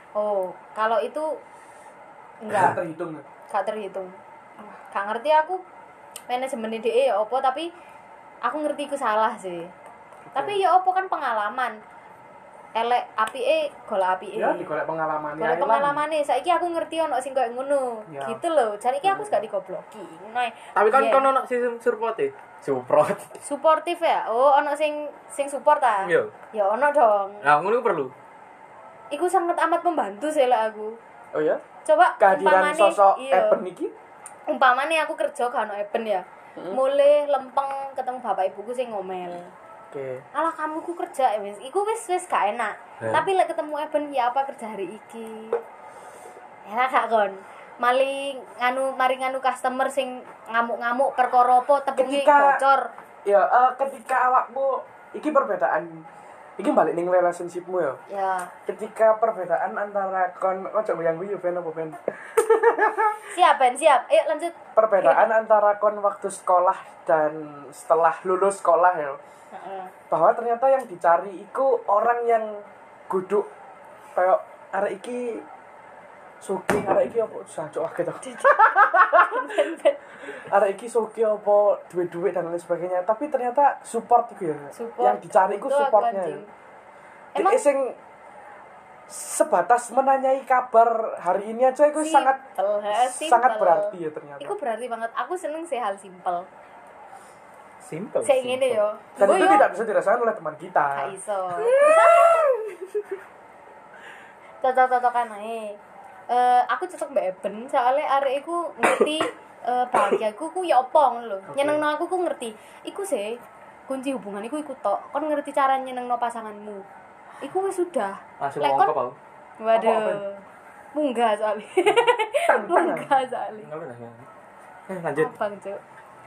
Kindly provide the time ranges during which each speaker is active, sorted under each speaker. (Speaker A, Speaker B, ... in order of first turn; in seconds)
Speaker A: 0.1-1.4, 2.4-2.8, 3.5-4.2, 4.7-5.6, 6.3-7.7, 8.4-9.7, 10.3-11.8, 12.7-14.6, 15.4-21.3, 23.4-27.4, 29.1-31.0, 31.8-33.6, 34.5-39.5, 40.3-45.6, 46.6-52.9, 58.1-58.5, 63.3-65.3, 69.5-69.9, 78.2-80.1, 84.7-86.5, 87.3-87.6, 92.0-96.5, 98.2-99.7, 101.0-102.5, 104.6-105.8, 106.3-116.8, 117.4-118.9, 119.6-120.4, 120.9-123.7, 125.2-125.8
Speaker B: 2.5-3.2, 10.3-10.6, 14.3-16.0, 18.1-18.4, 19.1-19.3, 31.3-31.6, 32.2-33.9, 39.9-40.2, 51.9-52.6, 53.2-56.0, 56.6-58.0, 58.6-63.3, 64.8-69.2, 70.1-73.5, 74.1-75.4, 76.4-79.7, 80.2-86.4, 87.3-88.0, 89.1-92.4, 92.9-94.5, 99.2-101.1, 111.5-111.8, 119.7-120.2, 122.5-123.1
Speaker C: 20.8-23.4, 26.0-26.3, 27.4-28.1, 97.8-98.8, 101.7-102.5, 118.4-119.1, 123.6-124.2, 124.9-125.3